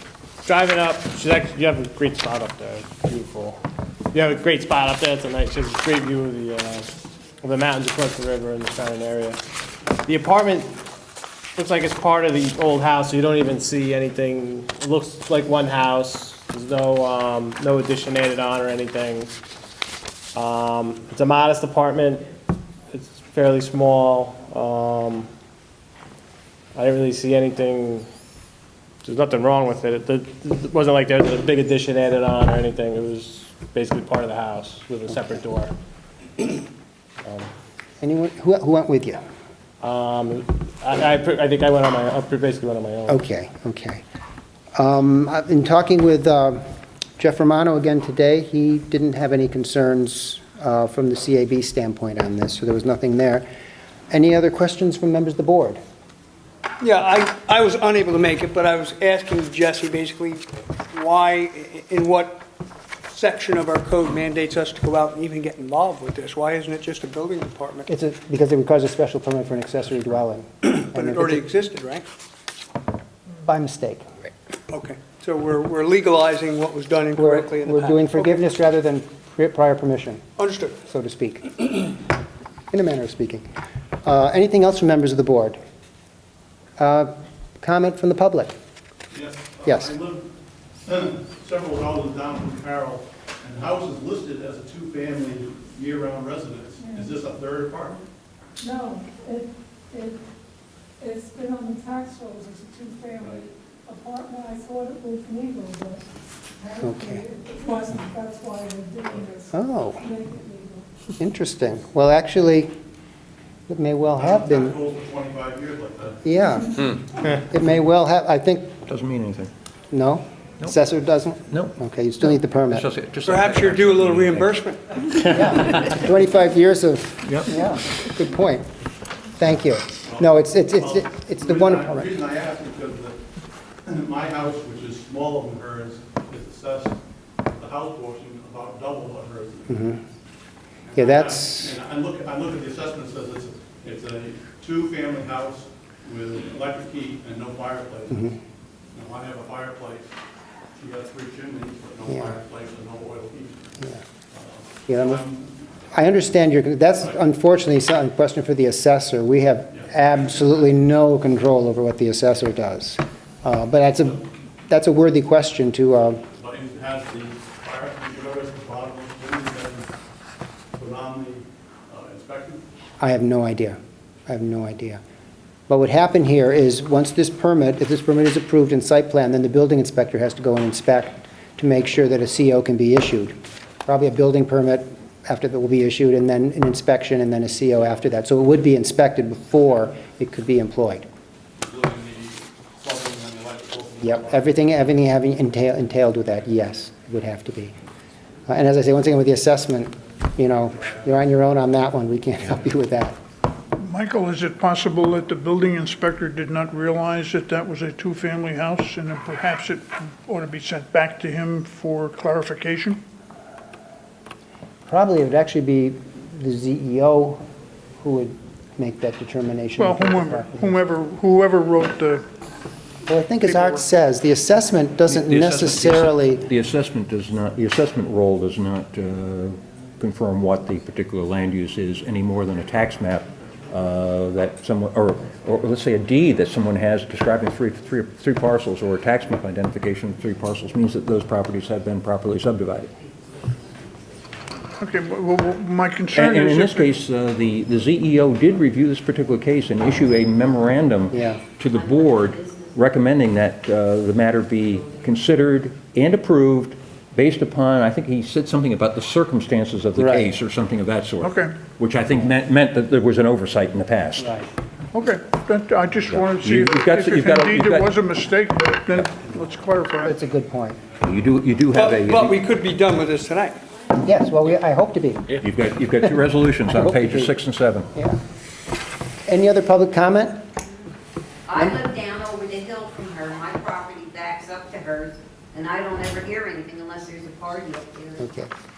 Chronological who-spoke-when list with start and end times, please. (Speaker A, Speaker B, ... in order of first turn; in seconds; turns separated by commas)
Speaker A: 0.4-3.6, Speaker A: 4.1-6.8, Speaker A: 7.4-9.4, Speaker A: 10.0-10.7, Speaker A: 11.5-19.3, Speaker A: 20.3-22.3, Speaker A: 22.9-25.3, Speaker A: 26.7-28.1, Speaker A: 29.0-35.7, Speaker B: 35.1-35.4, Speaker B: 38.0-39.2, Speaker A: 39.8-43.2, Speaker B: 43.1-44.0, Speaker B: 44.7-46.6, Speaker B: 47.2-53.5, Speaker B: 54.1-55.8, Speaker C: 56.8-62.4, Speaker C: 63.1-67.9, Speaker B: 67.9-71.5, Speaker C: 70.6-72.1, Speaker B: 73.4-74.0, Speaker C: 74.7-78.4, Speaker B: 77.2-80.2, Speaker C: 80.4-80.8, Speaker B: 80.8-81.5, Speaker B: 82.7-83.4, Speaker B: 84.0-85.6, Speaker B: 86.8-88.5, Speaker D: 89.1-90.3, Speaker B: 89.6-89.9, Speaker D: 90.8-98.0, Speaker E: 98.6-100.2, Speaker E: 101.0-106.0, Speaker E: 106.6-110.8, Speaker B: 106.8-107.2, Speaker B: 109.5-110.0, Speaker B: 111.2-112.7, Speaker B: 113.7-114.8, Speaker D: 114.2-116.2, Speaker B: 116.2-116.7, Speaker F: 116.8-117.0, Speaker B: 117.3-118.7, Speaker F: 118.8-119.5, Speaker B: 119.9-122.9, Speaker F: 122.7-124.5, Speaker C: 123.2-125.9, Speaker B: 125.3-128.7, Speaker F: 127.2-127.5, Speaker B: 129.4-132.1, Speaker D: 130.0-133.2, Speaker D: 133.8-139.9, Speaker B: 139.7-140.0, Speaker D: 140.8-148.3, Speaker B: 140.9-141.7, Speaker D: 148.9-150.1, Speaker D: 150.8-155.5, Speaker B: 152.1-152.3, Speaker B: 154.9-155.2, Speaker B: 155.9-166.2, Speaker D: 159.7-160.6, Speaker D: 166.3-169.9, Speaker D: 170.8-172.6, Speaker B: 173.0-175.0, Speaker B: 175.7-183.3, Speaker B: 183.8-191.1, Speaker D: 191.6-194.7, Speaker B: 194.0-197.8, Speaker B: 198.5-203.2, Speaker D: 200.7-201.0, Speaker G: 203.8-213.0, Speaker B: 214.9-217.4, Speaker B: 218.0-220.8, Speaker G: 219.8-222.2, Speaker B: 223.1-226.4, Speaker G: 223.4-223.9, Speaker F: 225.1-242.9, Speaker G: 244.8-246.9, Speaker F: 246.1-264.4, Speaker B: 251.1-251.4, Speaker H: 251.7-253.5, Speaker H: 254.5-255.4, Speaker B: 259.9-260.3, Speaker G: 261.2-261.6, Speaker B: 264.2-264.5, Speaker G: 264.9-270.2, Speaker F: 266.1-268.0, Speaker F: 268.9-269.3, Speaker B: 270.0-270.8, Speaker F: 271.0-272.4, Speaker C: 271.7-273.6, Speaker B: 274.0-275.4, Speaker F: 275.4-277.9, Speaker B: 276.7-277.4, Speaker B: 279.3-280.4, Speaker H: 281.5-288.3, Speaker B: 288.2-288.5